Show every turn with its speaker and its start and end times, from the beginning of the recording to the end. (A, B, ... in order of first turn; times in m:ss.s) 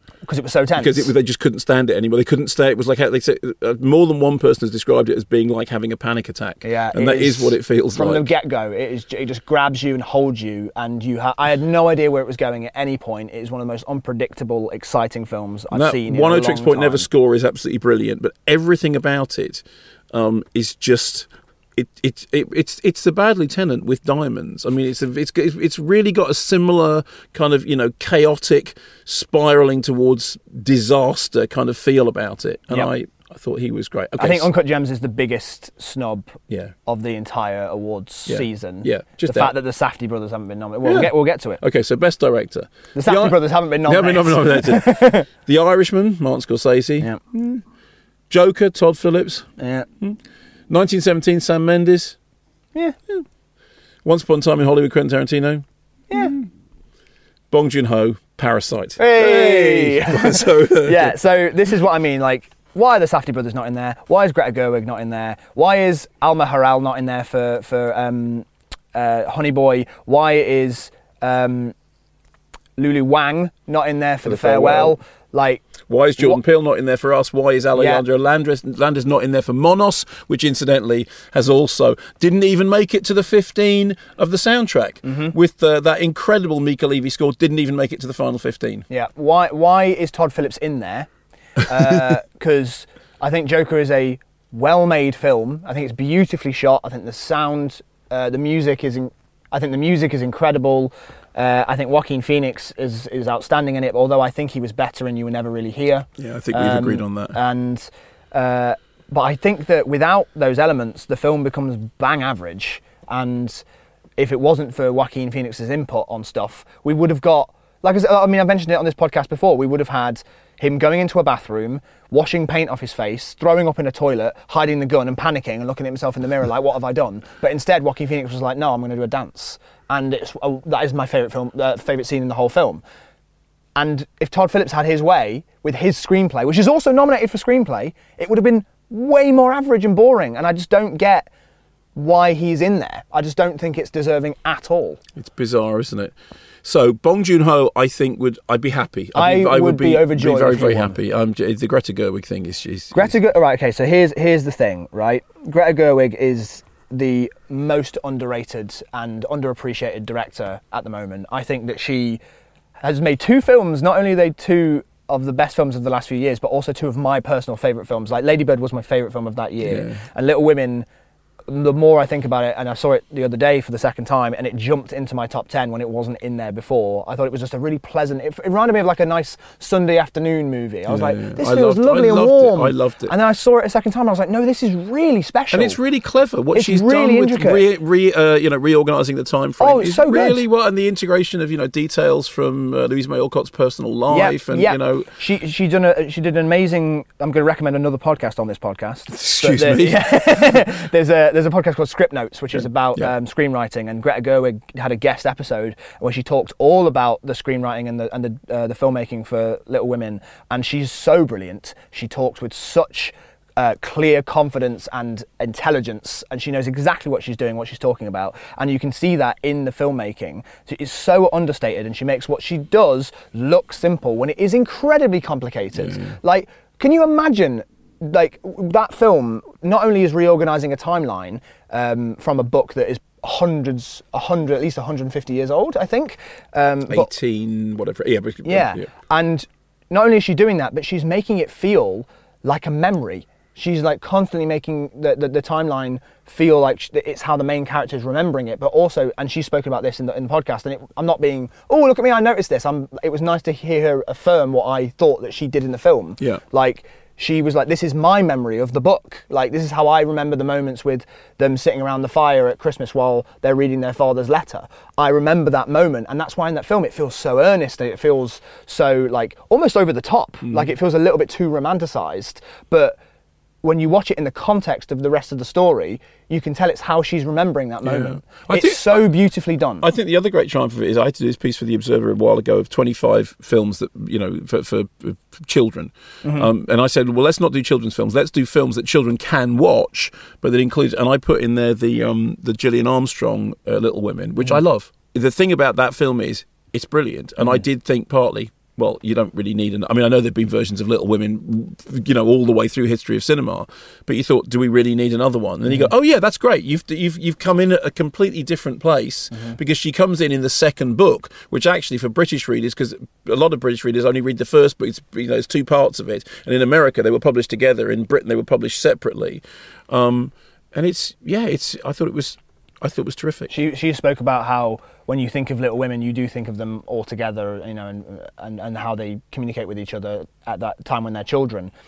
0:00.3-0:01.1 A
0:00.8-0:08.3 B
0:06.6-0:17.1 A
0:15.7-0:34.5 B
0:34.2-0:41.6 A
0:38.3-0:39.5 B
0:40.8-0:47.1 B
0:43.0-0:45.3 A
0:47.0-0:47.6 A
0:48.3-0:49.5 B
0:49.6-0:49.9 A
0:50.7-0:52.2 B
0:54.0-0:56.5 B
0:57.5-1:01.2 B
0:59.0-1:11.7 A
1:12.8-1:15.6 A
1:14.2-1:15.0 B
1:15.9-1:28.8 B
1:17.8-1:18.0 A
1:25.0-1:25.3 A
1:28.9-1:31.1 A
1:31.6-1:53.6 A
1:46.2-1:47.4 B
1:54.2-2:12.8 A
2:13.8-2:21.3 A
2:22.0-2:25.0 A
2:25.2-2:33.2 B
2:29.2-2:31.0 A
2:32.9-2:42.2 A
2:42.8-2:50.9 A
2:49.6-2:50.0 B
2:51.5-3:05.8 A
3:00.9-3:03.1 B
3:05.5-3:15.1 B
3:06.5-3:07.6 A
3:09.6-3:10.4 A
3:14.1-3:57.1 A
3:19.1-3:20.7 B
3:22.5-3:23.1 B
3:45.8-3:46.2 B
3:56.9-3:58.9 B
3:58.4-4:33.0 A
4:30.5-4:30.7 B
4:33.6-4:39.9 A
4:37.8-4:39.1 B
4:39.8-5:23.5 B
4:46.2-4:46.5 A
5:09.3-5:09.6 A
5:23.5-5:31.7 A